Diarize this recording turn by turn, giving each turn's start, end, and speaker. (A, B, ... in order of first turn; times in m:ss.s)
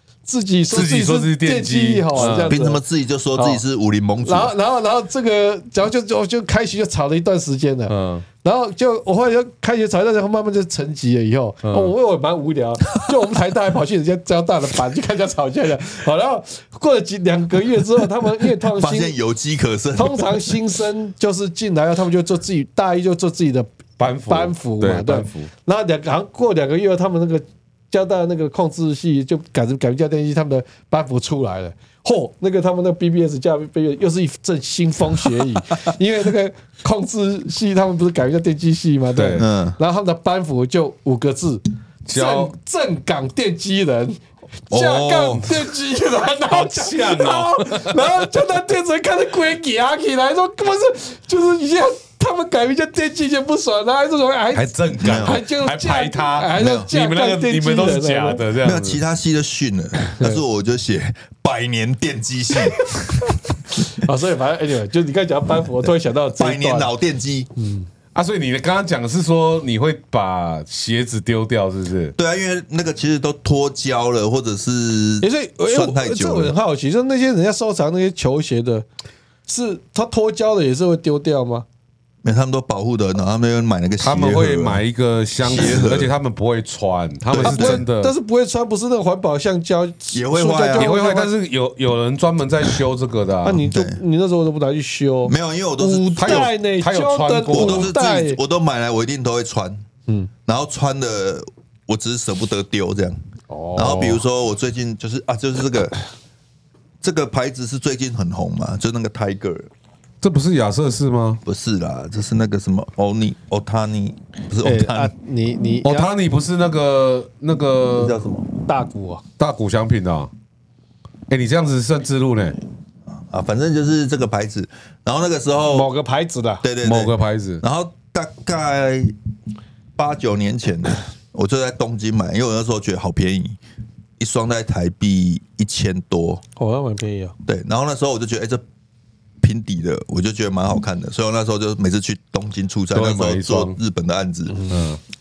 0:00.2-0:02.8 A
0:00.7-0:02.6 B
0:02.2-0:04.5 C
0:03.4-0:03.6 A
0:04.2-0:19.1 A
0:07.9-0:08.2 B
0:11.6-0:11.9 B
0:18.6-0:20.6 C
0:20.0-0:23.7 A
0:24.0-0:25.5 B
0:24.3-0:58.4 A
0:39.1-0:39.4 B
0:39.4-0:39.8 C
0:42.1-0:42.5 B
0:44.7-0:45.5 C
0:46.4-0:48.0 B
0:54.5-0:59.0 B
0:55.0-0:55.4 C
0:56.6-0:56.9 C
0:58.6-1:02.8 C
1:00.1-1:00.4 A
1:02.8-1:06.9 A
1:06.3-1:07.5 C
1:07.6-1:07.9 A
1:08.1-1:12.2 B
1:12.2-1:16.5 C
1:15.2-1:18.9 A
1:19.5-1:21.6 A
1:22.2-1:24.8 C
1:24.0-1:28.1 B
1:25.4-1:26.1 C
1:27.3-1:27.8 C
1:27.4-1:31.3 A
1:30.1-1:30.9 C
1:30.7-1:33.6 B
1:33.4-1:38.4 A
1:33.6-1:34.0 C
1:35.2-1:36.5 C
1:36.2-1:37.9 B
1:37.5-1:39.8 C
1:40.5-1:43.2 C
1:43.5-1:44.2 A
1:43.7-1:46.0 C
1:47.0-1:49.7 C
1:50.2-1:51.4 B
1:51.4-1:55.1 C
1:54.6-1:56.1 A
1:55.8-1:58.2 B
1:57.9-1:58.5 C
1:58.6-1:59.2 A
1:59.4-2:00.3 B
2:01.3-2:02.6 B
2:03.3-2:05.9 C
2:05.7-2:06.6 A
2:06.6-2:09.1 C
2:06.8-2:07.6 B
2:10.0-2:13.6 C
2:14.2-2:16.4 C
2:16.6-2:17.3 A
2:17.4-2:18.6 C
2:19.4-2:24.6 C
2:22.9-2:23.8 B
2:24.5-2:24.8 A
2:24.7-2:25.0 B